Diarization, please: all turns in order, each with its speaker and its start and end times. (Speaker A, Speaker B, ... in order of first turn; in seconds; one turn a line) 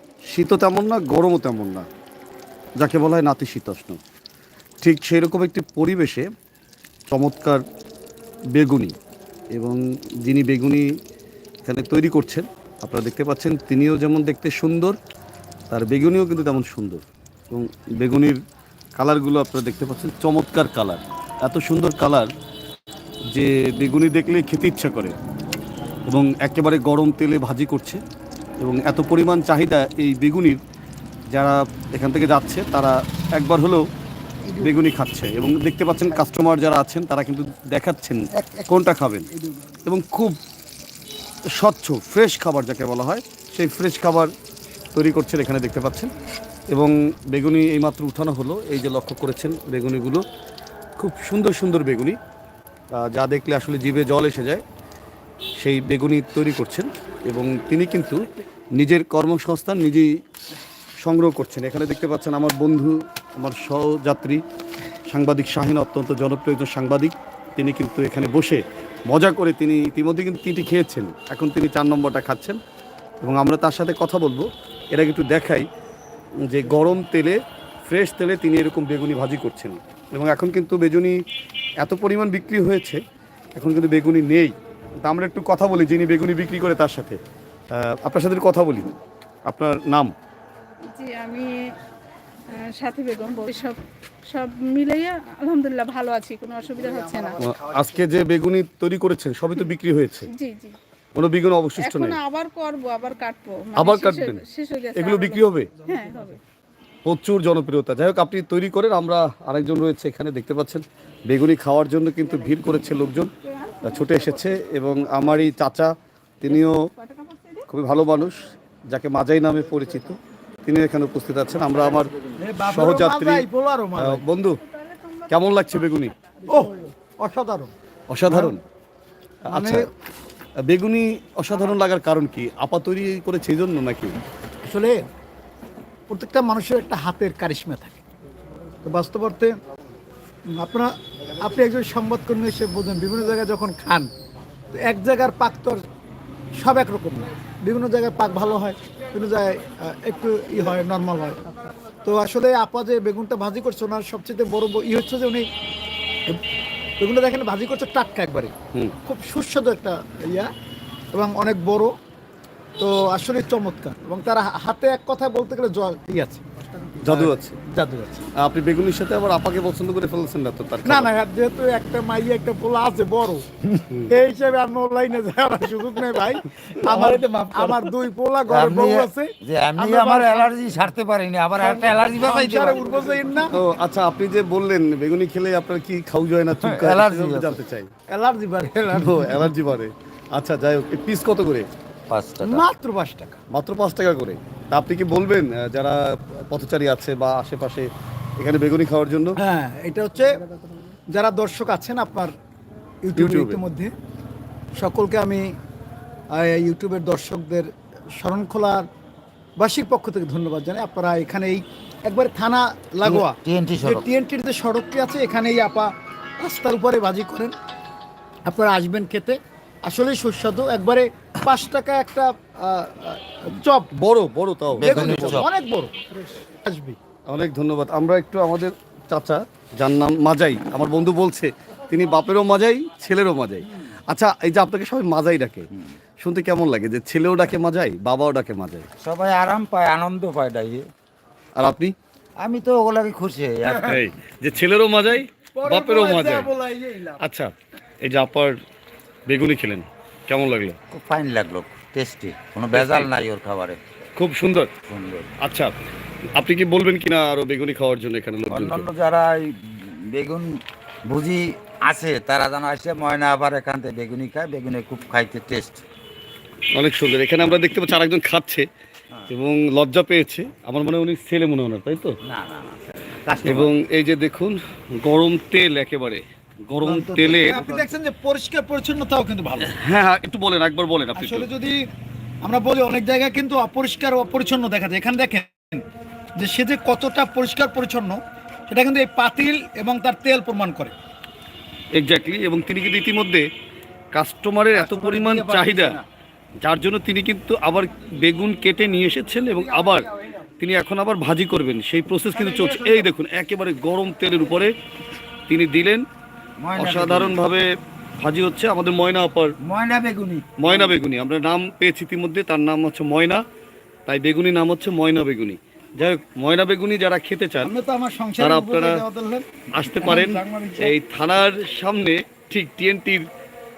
Speaker A: 0.3-1.9
Speaker A: 2.8-4.0
Speaker A: 4.8-6.2
Speaker A: 7.1-7.6
Speaker A: 8.5-8.9
Speaker A: 9.5-10.9
Speaker A: 11.6-15.0
Speaker A: 15.7-18.4
Speaker A: 18.9-22.3
Speaker A: 23.3-25.2
Speaker A: 26.1-28.0
Speaker A: 28.6-30.6
Speaker A: 31.3-33.8
Speaker B: 34.5-34.7
Speaker A: 34.6-39.3
Speaker B: 38.3-38.8
Speaker B: 39.3-39.7
Speaker A: 39.8-40.4
Speaker A: 41.5-44.3
Speaker A: 44.9-46.1
Speaker A: 46.7-50.2
Speaker A: 51.0-52.2
Speaker A: 52.9-54.6
Speaker A: 55.6-58.2
Speaker A: 58.8-60.1
Speaker A: 61.0-64.4
Speaker A: 65.1-72.6
Speaker A: 73.2-75.7
Speaker A: 76.4-81.2
Speaker A: 81.8-83.0
Speaker A: 83.5-87.2
Speaker A: 87.7-88.9
Speaker A: 89.5-90.1
Speaker C: 90.9-91.5
Speaker C: 92.5-97.4
Speaker A: 97.4-100.3
Speaker C: 100.3-100.8
Speaker A: 101.1-102.2
Speaker C: 101.8-106.4
Speaker A: 103.7-104.4
Speaker A: 104.9-105.7
Speaker A: 107.0-113.3
Speaker A: 113.8-116.8
Speaker C: 116.7-117.7
Speaker A: 117.7-122.1
Speaker B: 122.4-124.2
Speaker A: 122.6-123.5
Speaker A: 124.0-124.6
Speaker C: 124.6-126.1
Speaker A: 125.3-126.1
Speaker B: 126.5-127.7
Speaker A: 128.1-128.6
Speaker B: 128.2-128.6
Speaker A: 129.4-129.9
Speaker B: 129.5-129.9
Speaker A: 130.6-134.2
Speaker B: 134.6-135.0
Speaker B: 136.1-138.0
Speaker B: 138.8-139.6
Speaker B: 140.5-144.1
Speaker B: 144.7-145.8
Speaker B: 146.6-151.4
Speaker B: 152.0-155.5
Speaker B: 157.0-160.5
Speaker B: 161.1-161.9
Speaker B: 162.8-168.3
Speaker A: 167.0-167.6
Speaker A: 168.4-171.1
Speaker B: 170.8-173.4
Speaker B: 174.1-180.5
Speaker D: 176.9-177.6
Speaker D: 178.5-183.0
Speaker B: 181.6-183.6
Speaker A: 183.5-187.9
Speaker D: 186.6-187.6
Speaker B: 188.1-189.4
Speaker A: 188.9-191.7
Speaker D: 192.1-192.6
Speaker B: 192.4-193.4
Speaker A: 193.5-199.4
Speaker B: 199.3-200.4
Speaker B: 201.1-202.3
Speaker B: 203.0-203.9
Speaker A: 203.2-203.6
Speaker B: 204.7-205.5
Speaker B: 206.3-208.9
Speaker B: 209.6-217.5
Speaker D: 213.0-214.1
Speaker B: 218.5-223.9
Speaker A: 223.9-225.4
Speaker D: 224.7-225.5
Speaker B: 224.8-226.0
Speaker B: 226.6-226.9
Speaker A: 227.3-238.8
Speaker D: 239.0-240.9
Speaker A: 241.6-241.9
Speaker D: 242.4-244.0
Speaker B: 243.7-244.0
Speaker A: 243.8-246.5
Speaker B: 245.6-247.2
Speaker A: 247.2-247.5
Speaker A: 248.0-248.5
Speaker A: 249.3-250.8
Speaker D: 250.9-253.8
Speaker A: 252.7-253.1
Speaker A: 254.2-254.7
Speaker D: 254.9-255.3
Speaker A: 255.4-255.7
Speaker A: 256.3-258.9
Speaker D: 258.5-265.8
Speaker A: 266.7-268.6
Speaker A: 269.3-272.2
Speaker D: 272.2-273.7
Speaker A: 273.4-277.6
Speaker B: 276.9-279.7
Speaker D: 276.9-277.9
Speaker A: 279.6-281.5
Speaker B: 281.1-281.8
Speaker B: 282.4-285.8
Speaker B: 286.4-290.9
Speaker A: 291.9-293.4
Speaker A: 294.1-296.0
Speaker B: 294.7-296.0
Speaker A: 296.6-300.1
Speaker A: 300.6-304.7
Speaker D: 302.4-303.0
Speaker A: 305.5-306.0
Speaker D: 306.6-307.4
Speaker A: 306.7-307.7
Speaker A: 308.2-309.5
Speaker D: 309.6-310.9
Speaker A: 310.6-313.4
Speaker A: 314.1-317.7
Speaker B: 317.6-319.4
Speaker A: 318.4-319.0
Speaker A: 319.7-323.2
Speaker B: 320.0-320.9